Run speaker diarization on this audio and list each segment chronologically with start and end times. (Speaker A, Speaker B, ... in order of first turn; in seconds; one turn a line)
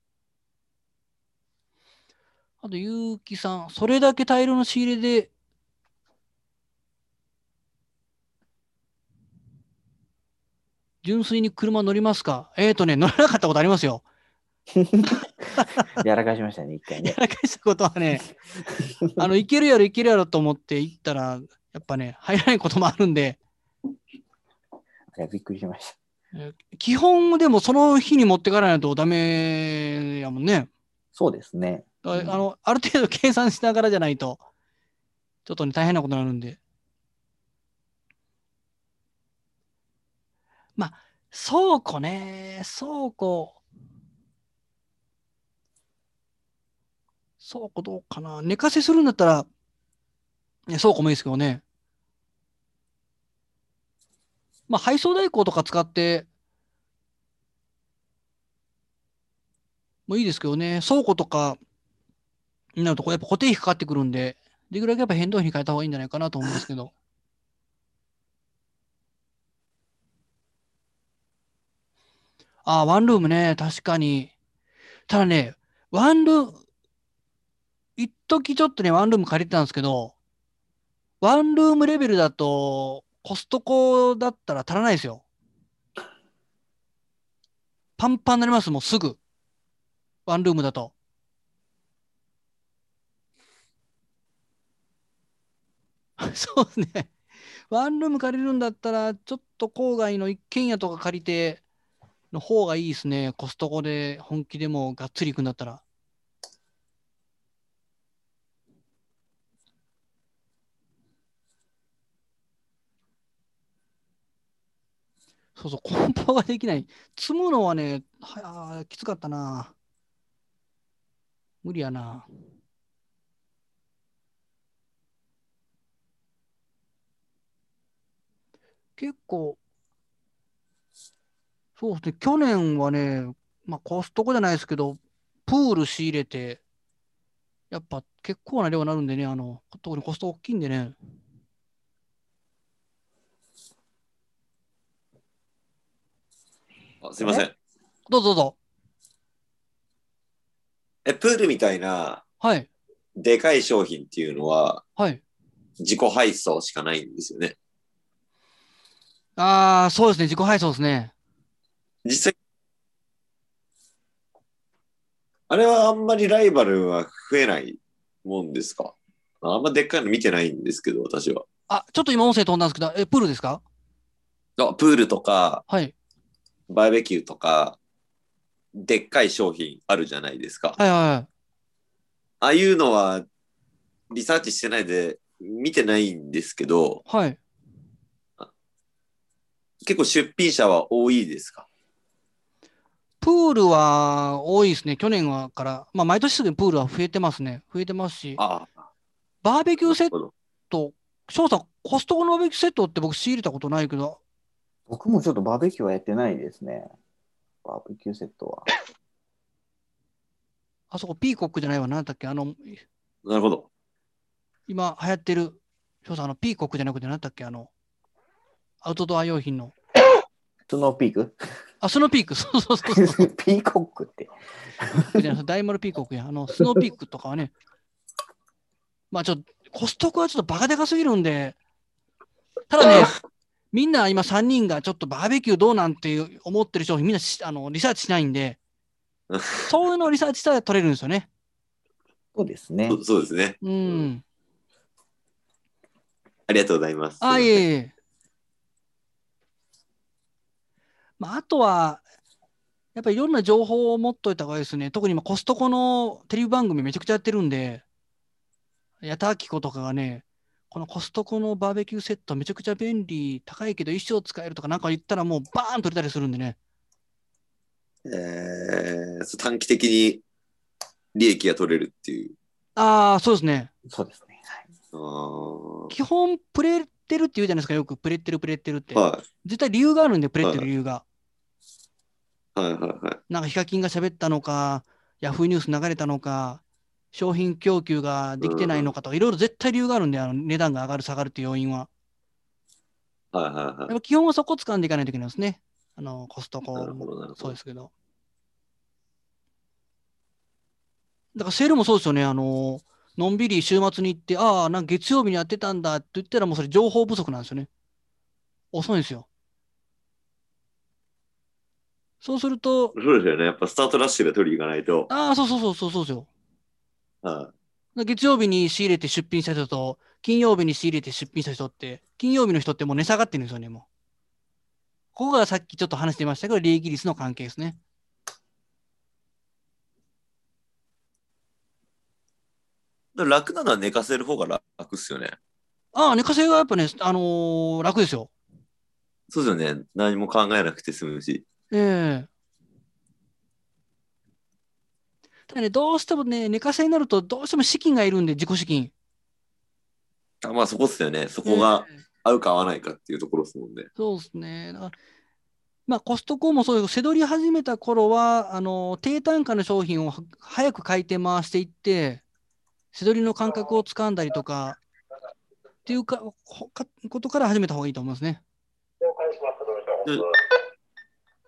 Speaker A: 2.6-5.3
Speaker A: 11.0-14.0
Speaker B: 14.7-15.1
Speaker A: 15.6-15.9
Speaker B: 16.0-17.2
Speaker A: 17.0-18.3
Speaker B: 18.7-19.2
Speaker A: 19.2-23.4
Speaker B: 25.1-25.9
Speaker A: 26.3-30.7
Speaker B: 31.1-32.4
Speaker A: 32.0-34.4
Speaker A: 35.4-36.6
Speaker A: 40.8-43.6
Speaker A: 47.4-49.5
Speaker A: 50.7-51.6
Speaker A: 54.7-56.2
Speaker A: 60.1-61.6
Speaker A: 62.8-66.9
Speaker A: 72.6-74.3
Speaker A: 75.1-76.6
Speaker A: 78.0-80.1
Speaker A: 81.2-85.2
Speaker A: 88.0-89.2
Speaker A: 90.2-90.9
Speaker A: 96.2-97.1
Speaker A: 97.7-101.6
Speaker A: 102.3-105.8
Speaker A: 115.5-119.7
Speaker A: 121.6-122.3
Speaker A: 129.0-129.6
Speaker A: 131.8-136.6
Speaker A: 137.7-140.9
Speaker C: 147.0-147.5
Speaker A: 147.2-147.4
Speaker A: 148.1-148.6
Speaker C: 151.0-152.2
Speaker A: 152.4-152.7
Speaker C: 153.2-154.8
Speaker C: 155.8-157.6
Speaker A: 159.4-161.1
Speaker C: 162.0-162.3
Speaker C: 165.5-171.4
Speaker A: 171.7-173.6
Speaker C: 174.6-175.6
Speaker C: 176.7-177.8
Speaker C: 178.7-180.8
Speaker A: 180.8-181.3
Speaker C: 182.4-183.2
Speaker C: 184.1-187.0
Speaker A: 187.1-187.4
Speaker C: 189.8-191.7
Speaker A: 193.2-198.4
Speaker C: 198.4-198.7
Speaker A: 199.4-200.1
Speaker C: 199.8-200.3
Speaker A: 200.7-204.2
Speaker B: 204.9-206.9
Speaker B: 207.6-208.7
Speaker A: 210.9-212.8
Speaker C: 213.2-213.7
Speaker A: 214.7-217.7
Speaker A: 218.8-219.7
Speaker B: 220.7-221.4
Speaker A: 221.8-223.3
Speaker B: 222.9-225.2
Speaker A: 225.1-227.5
Speaker A: 229.1-231.6
Speaker A: 232.7-233.1
Speaker A: 233.7-238.6
Speaker C: 239.3-239.7
Speaker A: 239.7-241.3
Speaker B: 242.3-243.0
Speaker C: 242.9-244.0
Speaker A: 243.6-244.2
Speaker C: 246.5-247.6
Speaker A: 247.2-247.9
Speaker A: 251.2-252.0
Speaker A: 252.9-257.8
Speaker A: 259.0-266.6
Speaker C: 268.0-270.2
Speaker C: 271.1-272.3
Speaker A: 272.8-273.7
Speaker B: 273.9-274.7
Speaker C: 274.9-275.9
Speaker A: 275.9-281.0
Speaker C: 278.9-279.2
Speaker C: 280.4-280.7
Speaker C: 282.6-283.2
Speaker A: 283.3-286.6
Speaker A: 287.1-291.9
Speaker C: 288.4-288.9
Speaker C: 293.3-293.9
Speaker A: 293.9-297.9
Speaker C: 296.7-297.6
Speaker A: 301.3-307.7
Speaker A: 308.7-309.3
Speaker A: 312.2-312.9
Speaker C: 312.9-315.1
Speaker A: 315.1-316.3
Speaker C: 317.2-317.5
Speaker A: 317.9-323.9
Speaker A: 325.1-327.8
Speaker C: 333.1-335.4
Speaker A: 335.9-338.3
Speaker C: 339.3-341.4
Speaker A: 341.7-342.3
Speaker A: 345.5-348.9
Speaker C: 350.4-353.9
Speaker A: 351.4-352.0
Speaker A: 353.9-354.9
Speaker A: 355.9-362.2
Speaker A: 362.9-364.8
Speaker A: 365.9-368.4